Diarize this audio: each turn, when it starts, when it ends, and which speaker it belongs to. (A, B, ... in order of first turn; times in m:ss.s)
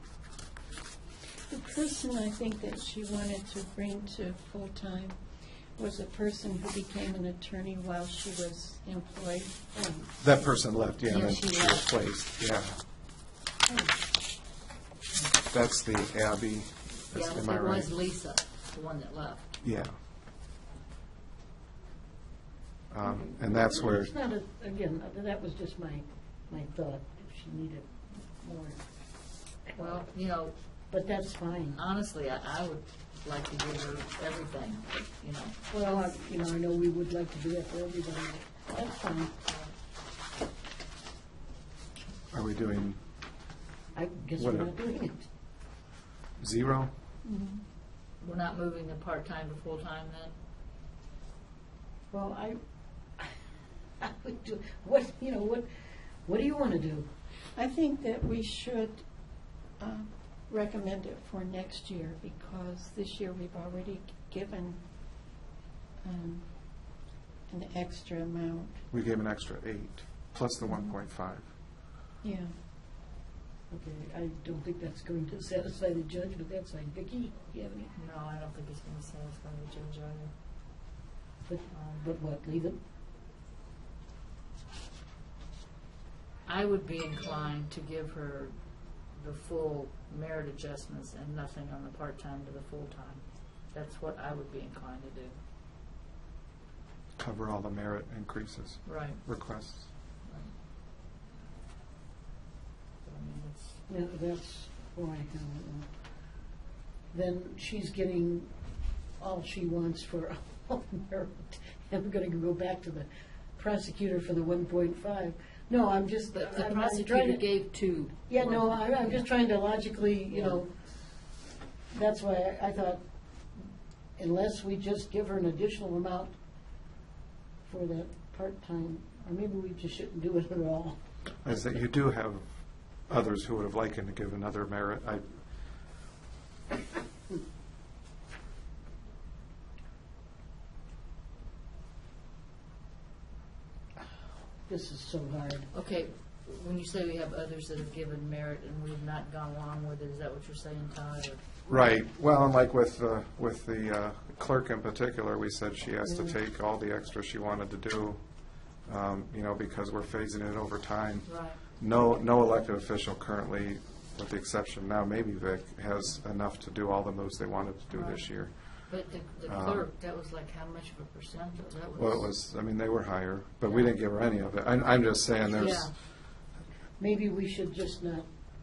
0:01.5-0:09.6 A
0:09.7-0:10.1 B
0:10.2-0:12.8 C
0:11.1-0:11.9 D
0:13.7-0:13.9 B
0:15.5-0:17.9 C
0:17.1-0:19.5 D
0:19.6-0:20.0 C
0:22.9-0:24.1 C
0:23.0-0:28.8 B
0:29.7-0:30.0 B
0:29.8-0:30.6 D
0:30.9-0:31.8 B
0:31.7-0:35.6 D
0:35.7-0:39.3 B
0:39.4-0:39.7 D
0:42.3-0:43.0 C
0:44.0-0:45.3 B
0:44.4-0:44.7 C
0:46.4-0:46.9 C
0:47.2-0:47.6 A
0:48.2-0:50.4 D
0:52.1-0:52.6 B
0:54.0-0:55.7 B
0:56.2-0:57.1 B
0:57.6-0:59.0 A
0:59.8-1:04.8 A
1:06.0-1:06.5 A
1:07.5-1:08.8 A
1:08.9-1:11.5 C
1:12.2-1:12.5 A
1:13.7-1:17.9 B
1:18.0-1:20.3 D
1:21.5-1:22.8 B
1:26.5-1:28.5 D
1:29.1-1:35.4 D
1:37.2-1:39.9 C
1:38.9-1:39.2 D
1:40.2-1:40.5 D
1:43.0-1:43.8 D
1:43.9-1:45.9 B
1:47.1-1:48.5 B
1:49.2-1:57.4 B
1:56.3-1:59.2 D
1:58.3-2:00.7 B
2:00.3-2:00.6 D
2:01.9-2:03.0 B
2:04.2-2:06.3 B
2:07.7-2:11.0 B
2:11.4-2:12.4 C
2:13.1-2:15.2 C
2:24.7-2:25.7 B
2:25.7-2:31.4 D
2:31.7-2:48.7 C
2:41.3-2:41.6 D
2:47.9-2:48.3 D
2:48.9-2:52.3 D
2:49.5-2:49.8 C
2:52.0-2:55.9 C
2:53.6-2:53.9 D
2:55.5-2:55.9 D
2:57.0-2:58.3 B